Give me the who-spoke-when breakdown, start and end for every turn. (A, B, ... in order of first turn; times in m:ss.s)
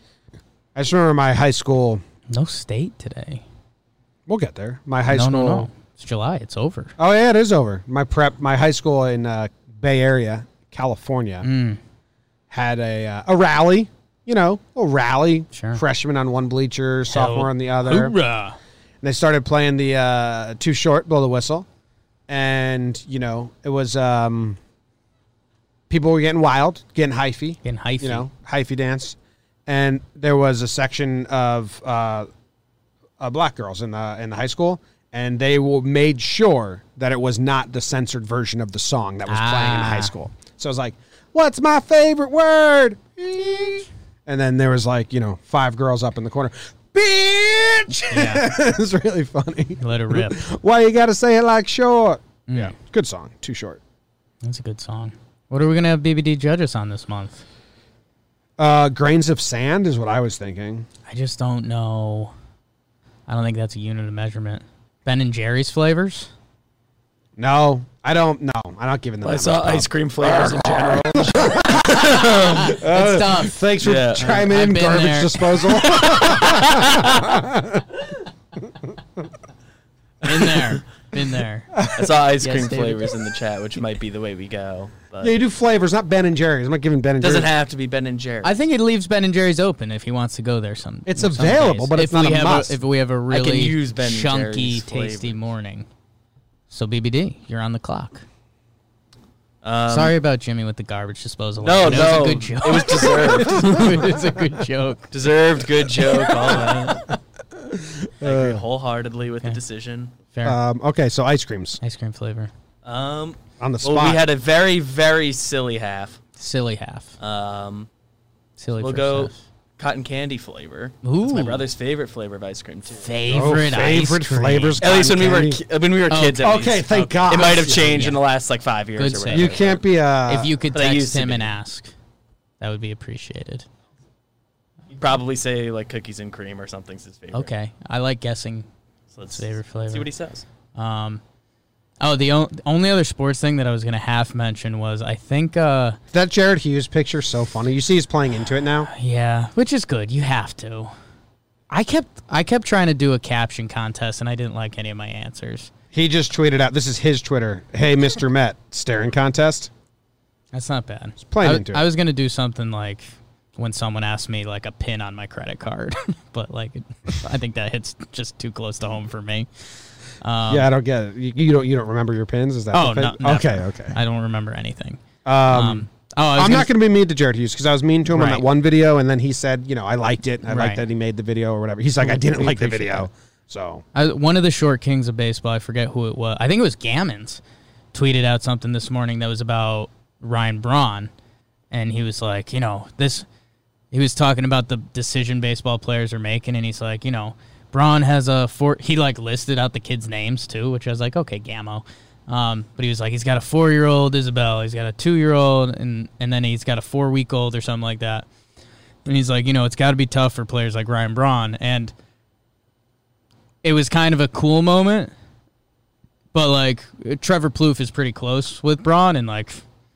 0:00.8-0:02.0 A
0:02.3-0:03.4 B
0:04.3-0:05.7 A
0:05.1-0:06.9 B
0:07.0-0:11.5 A
0:11.4-0:11.8 B
0:12.5-0:18.2 A
0:15.5-0:15.8 B
0:17.1-0:18.6 B
0:19.0-0:21.7 A
0:22.3-0:24.6 A
0:25.9-0:29.2 A
0:27.6-0:28.3 B
0:29.7-0:32.3 A
0:33.2-0:53.8 A
0:39.3-0:40.1 B
0:48.1-0:48.5 B
0:49.8-0:50.4 B
0:52.5-0:52.7 B
0:54.4-0:57.4 B
0:58.6-1:00.9 A
1:01.1-1:02.3 B
1:03.3-1:06.3 B
1:07.4-1:17.9 A
1:09.2-1:12.8 C
1:12.6-1:13.6 B
1:13.8-1:14.3 C
1:14.2-1:15.6 B
1:16.4-1:17.1 B
1:20.2-1:21.7 B
1:21.8-1:22.1 A
1:21.9-1:25.3 C
1:22.4-1:23.1 B
1:25.2-1:27.5 A
1:27.2-1:28.6 C
1:28.4-1:35.9 B
1:31.1-1:32.8 A
1:33.3-1:35.4 C
1:36.7-1:38.2 B
1:39.6-1:40.2 C
1:39.9-1:45.1 B
1:41.6-1:44.1 C
1:43.2-1:43.6 A
1:45.1-1:47.2 C
1:46.2-1:46.8 A
1:47.6-1:48.6 A
1:48.2-1:50.1 C
1:50.3-1:50.6 B
1:50.4-1:51.8 A
1:51.8-1:52.5 B
1:52.8-1:56.2 C
1:53.6-1:54.2 A
1:56.4-1:57.1 B
1:57.2-1:57.9 C
1:58.6-1:59.4 B
1:58.8-2:03.1 C
2:01.0-2:01.6 B
2:02.9-2:05.1 B
2:03.3-2:05.6 A
2:04.8-2:09.8 C
2:06.1-2:08.2 B
2:06.4-2:08.0 A
2:09.0-2:09.5 B
2:09.3-2:10.5 A
2:10.3-2:11.9 B
2:10.7-2:11.5 C
2:12.6-2:13.7 B
2:15.0-2:17.5 C
2:17.3-2:18.7 B
2:19.1-2:20.4 C
2:19.3-2:20.1 B
2:20.8-2:21.2 B
2:22.0-2:26.0 B
2:26.1-2:28.9 A
2:28.9-2:30.9 B
2:31.7-2:35.7 B
2:35.9-2:39.7 A
2:40.5-2:49.5 B
2:41.2-2:41.8 A
2:50.2-2:50.7 B
2:50.5-2:54.0 A
2:52.7-2:56.7 B
2:55.2-3:03.8 A
2:58.1-2:58.4 B
3:00.5-3:00.8 B
3:02.0-3:03.1 B
3:03.9-3:07.4 B
3:07.9-3:11.1 B
3:11.7-3:13.3 B
3:13.9-3:28.3 B
3:29.0-3:31.9 B
3:33.6-3:35.1 B
3:36.3-3:39.6 B